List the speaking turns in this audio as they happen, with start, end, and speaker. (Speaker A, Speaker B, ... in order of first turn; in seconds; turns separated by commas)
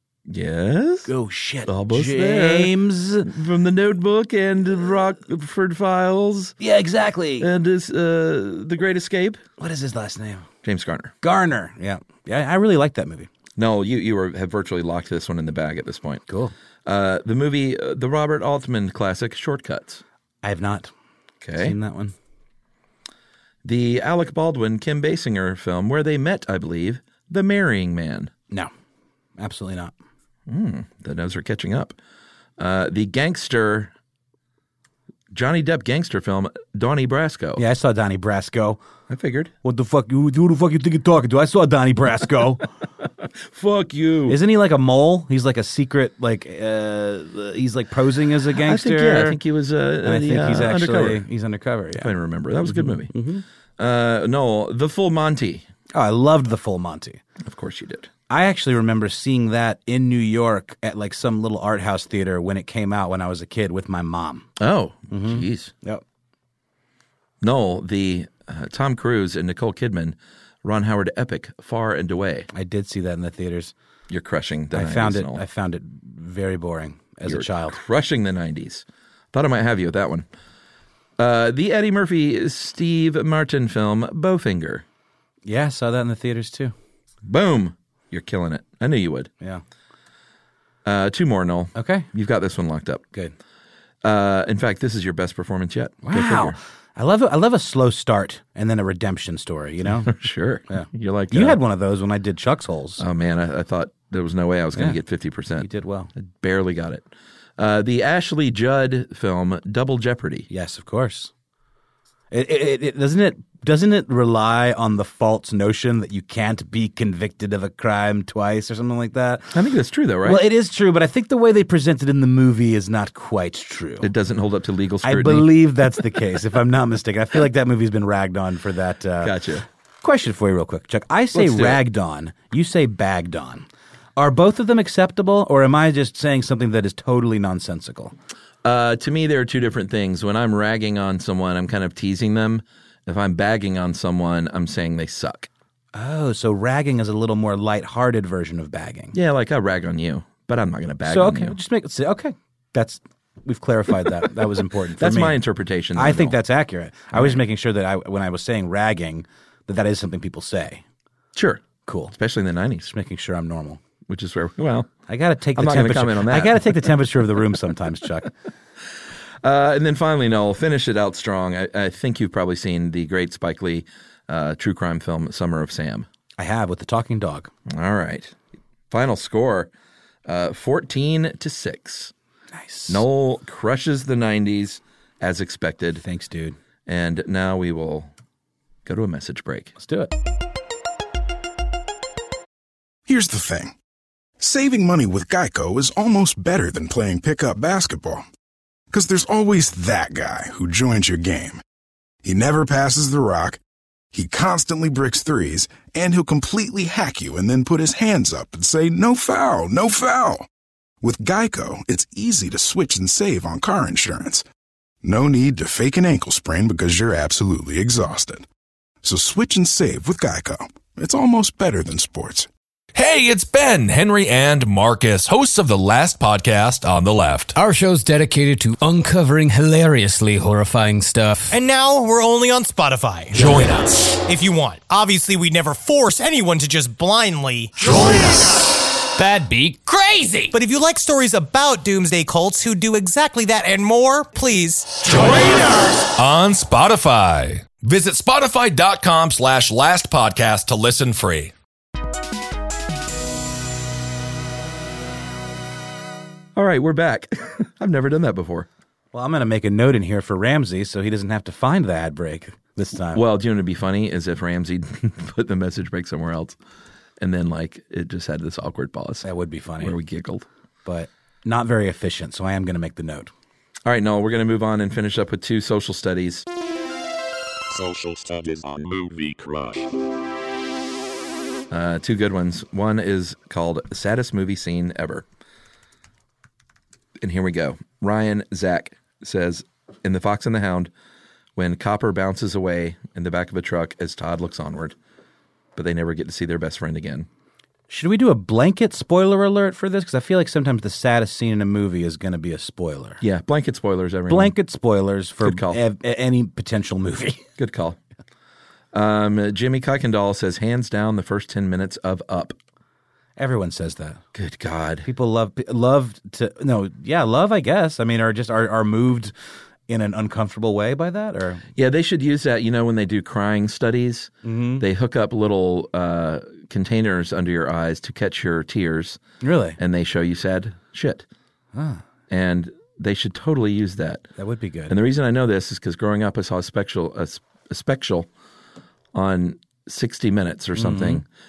Speaker A: 0.3-1.1, Speaker B: 1.1-3.3, Speaker A: 1.6-2.7, Speaker A: 3.2-6.5, Speaker B: 6.6-7.5, Speaker A: 7.4-9.4, Speaker B: 9.6-10.5, Speaker A: 10.6-11.1, Speaker B: 11.2-13.3, Speaker A: 13.6-16.2, Speaker B: 16.3-16.5, Speaker A: 16.9-20.0, Speaker B: 20.4-20.9, Speaker A: 21.4-21.7, Speaker B: 21.5-22.1, Speaker A: 23.6-28.3, Speaker B: 29.4-29.9, Speaker A: 30.5-31.9, Speaker A: 32.6-33.9, Speaker A: 35.3-37.6, Speaker B: 37.6-38.8, Speaker A: 39.1-39.5, Speaker B: 39.6-42.7, Speaker A: 43.5-44.4, Speaker B: 44.3-49.4, Speaker A: 48.6-51.2, Speaker B: 50.0-53.4, Speaker A: 52.0-53.1, Speaker A: 53.8-55.6, Speaker B: 55.9-57.2, Speaker A: 57.4-58.1, Speaker B: 58.3-64.5, Speaker A: 64.6-65.7, Speaker B: 65.1-66.0, Speaker A: 67.4-72.5, Speaker B: 72.5-73.7, Speaker A: 74.1-75.4, Speaker B: 74.7-77.8, Speaker A: 77.2-80.2, Speaker A: 81.2-84.8, Speaker B: 85.5-86.7, Speaker A: 87.2-89.3, Speaker A: 90.8-93.0, Speaker B: 91.7-92.1, Speaker A: 94.0-96.5, Speaker B: 96.0-100.1, Speaker A: 100.0-101.6, Speaker B: 100.7-103.0, Speaker A: 103.0-107.0, Speaker B: 105.6-106.1, Speaker A: 107.6-110.5, Speaker B: 110.5-111.3, Speaker B: 112.3-119.5, Speaker A: 119.5-120.4, Speaker B: 120.2-124.1, Speaker A: 124.0-125.5, Speaker B: 125.0-129.3, Speaker A: 129.2-129.6, Speaker B: 130.0-133.7, Speaker A: 131.3-131.8, Speaker B: 134.2-138.1, Speaker A: 138.6-145.5, Speaker B: 145.9-149.1, Speaker A: 149.1-151.5, Speaker B: 151.0-155.4, Speaker A: 155.0-156.4, Speaker B: 155.9-160.8, Speaker A: 157.1-157.4, Speaker A: 161.3-162.9, Speaker B: 161.8-162.1, Speaker B: 162.8-163.8, Speaker A: 164.1-164.9, Speaker B: 165.1-168.3, Speaker A: 165.5-167.0, Speaker A: 169.4-176.1, Speaker B: 176.4-177.5, Speaker A: 177.7-178.3, Speaker A: 178.9-179.7, Speaker A: 180.2-182.1, Speaker B: 182.5-183.0, Speaker A: 182.9-186.0, Speaker B: 186.0-186.6, Speaker A: 186.8-188.1, Speaker A: 188.8-189.7, Speaker B: 189.8-190.1, Speaker C: 193.1-193.7, Speaker C: 194.4-198.2, Speaker C: 198.9-201.6, Speaker C: 202.2-203.6, Speaker C: 204.1-210.5, Speaker C: 211.0-214.4, Speaker C: 215.0-218.4, Speaker C: 219.0-222.5, Speaker D: 222.9-227.5, Speaker E: 227.5-231.5, Speaker F: 231.5-233.6, Speaker D: 233.3-234.2, Speaker F: 234.2-238.5, Speaker F: 239.2-245.7, Speaker E: 239.4-239.8, Speaker D: 245.0-251.5, Speaker A: 256.6-258.7, Speaker B: 259.1-263.2, Speaker A: 263.1-266.6, Speaker A: 267.2-269.3, Speaker B: 269.2-269.9, Speaker A: 269.8-270.4, Speaker B: 270.8-273.3, Speaker A: 273.9-276.4, Speaker G: 277.7-279.9, Speaker A: 281.7-285.2, Speaker A: 287.2-290.9, Speaker A: 291.6-294.9, Speaker A: 295.8-297.3, Speaker B: 297.9-303.2, Speaker A: 303.2-304.5, Speaker B: 304.3-307.4, Speaker A: 305.4-305.8, Speaker A: 307.6-308.0, Speaker A: 308.9-312.5, Speaker B: 313.4-314.2, Speaker A: 314.3-315.1, Speaker B: 315.0-319.3, Speaker B: 319.9-321.6, Speaker A: 321.8-329.2, Speaker B: 324.4-324.8, Speaker B: 329.4-329.8, Speaker A: 329.8-331.2, Speaker B: 331.7-332.0, Speaker A: 332.3-334.2, Speaker B: 334.4-334.9, Speaker A: 334.9-338.3, Speaker A: 339.1-341.2, Speaker B: 340.8-341.2